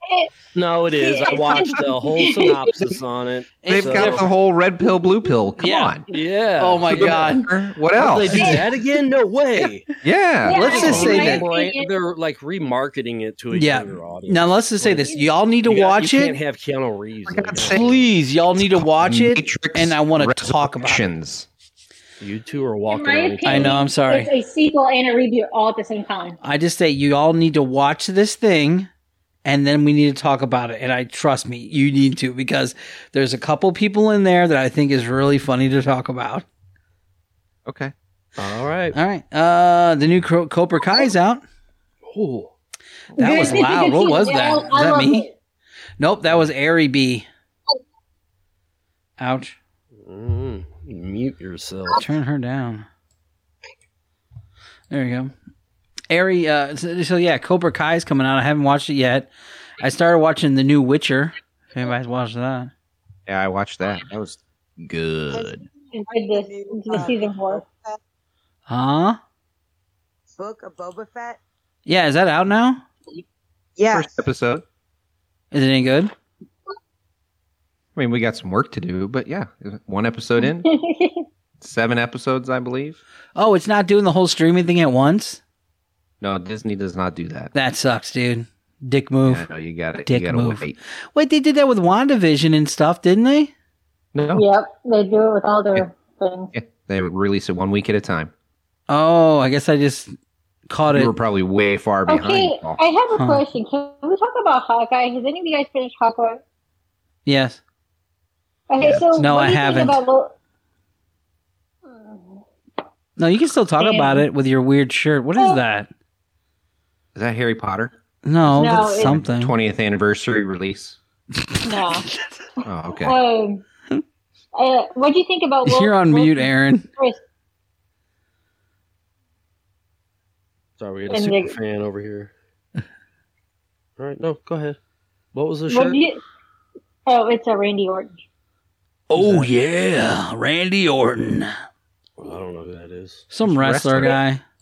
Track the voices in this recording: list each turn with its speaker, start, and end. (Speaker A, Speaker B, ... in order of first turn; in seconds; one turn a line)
Speaker A: 0.5-4.3
Speaker B: 0.9-2.6
Speaker C: 3.6-4.3
Speaker D: 3.7-6.0
Speaker C: 5.6-6.0
Speaker A: 6.1-7.3
Speaker C: 6.6-7.5
Speaker D: 6.9-8.4
Speaker A: 8.0-9.8
Speaker D: 10.0-11.2
Speaker B: 10.4-11.9
Speaker C: 10.5-11.4
Speaker A: 10.5-18.1
Speaker C: 13.5-16.4
Speaker D: 17.3-17.9
Speaker C: 17.6-21.0
Speaker D: 18.6-21.5
Speaker A: 22.2-23.8
Speaker B: 22.9-26.4
Speaker C: 23.4-24.3
Speaker C: 26.4-28.9
Speaker C: 29.4-36.5
Speaker D: 37.6-37.9
Speaker A: 38.4-39.0
Speaker C: 38.9-41.4
Speaker A: 42.0-42.5
Speaker D: 43.1-43.6
Speaker C: 43.2-45.3
Speaker B: 43.2-45.3
Speaker C: 46.0-47.3
Speaker C: 49.2-49.6
Speaker A: 50.0-52.0
Speaker C: 51.9-52.9
Speaker C: 54.9-55.3
Speaker C: 56.1-62.7
Speaker D: 63.3-65.6
Speaker E: 65.3-68.0
Speaker B: 65.9-67.6
Speaker C: 68.7-69.2
Speaker E: 70.3-71.4
Speaker C: 71.8-72.8
Speaker E: 73.8-74.2
Speaker D: 73.9-74.6
Speaker C: 75.5-76.1
Speaker D: 78.0-80.7
Speaker B: 80.4-81.2
Speaker D: 81.6-83.0
Speaker C: 83.3-85.4
Speaker D: 86.2-87.5
Speaker C: 87.5-89.5
Speaker D: 89.3-90.8
Speaker C: 90.0-93.5
Speaker D: 94.1-94.4
Speaker B: 94.3-96.5
Speaker D: 96.5-98.3
Speaker C: 98.9-100.1
Speaker C: 100.7-101.1
Speaker D: 100.9-102.8
Speaker B: 102.1-106.4
Speaker C: 103.1-103.4
Speaker C: 107.2-107.6
Speaker B: 108.7-110.3
Speaker C: 109.1-110.0
Speaker B: 111.9-112.4
Speaker C: 113.2-115.9
Speaker B: 113.8-114.2
Speaker D: 117.1-117.9
Speaker C: 118.2-119.5
Speaker D: 118.5-121.0
Speaker B: 118.5-119.2
Speaker B: 121.6-122.0
Speaker D: 122.6-123.2
Speaker B: 123.0-123.6
Speaker B: 124.5-127.2
Speaker C: 125.6-126.9
Speaker A: 130.8-132.3
Speaker B: 131.1-131.6
Speaker A: 134.0-134.8
Speaker A: 135.3-136.0
Speaker B: 135.7-136.2
Speaker B: 137.1-138.2
Speaker C: 139.1-141.5
Speaker A: 139.2-139.4
Speaker A: 142.2-143.3
Speaker C: 143.3-144.4
Speaker D: 143.4-144.2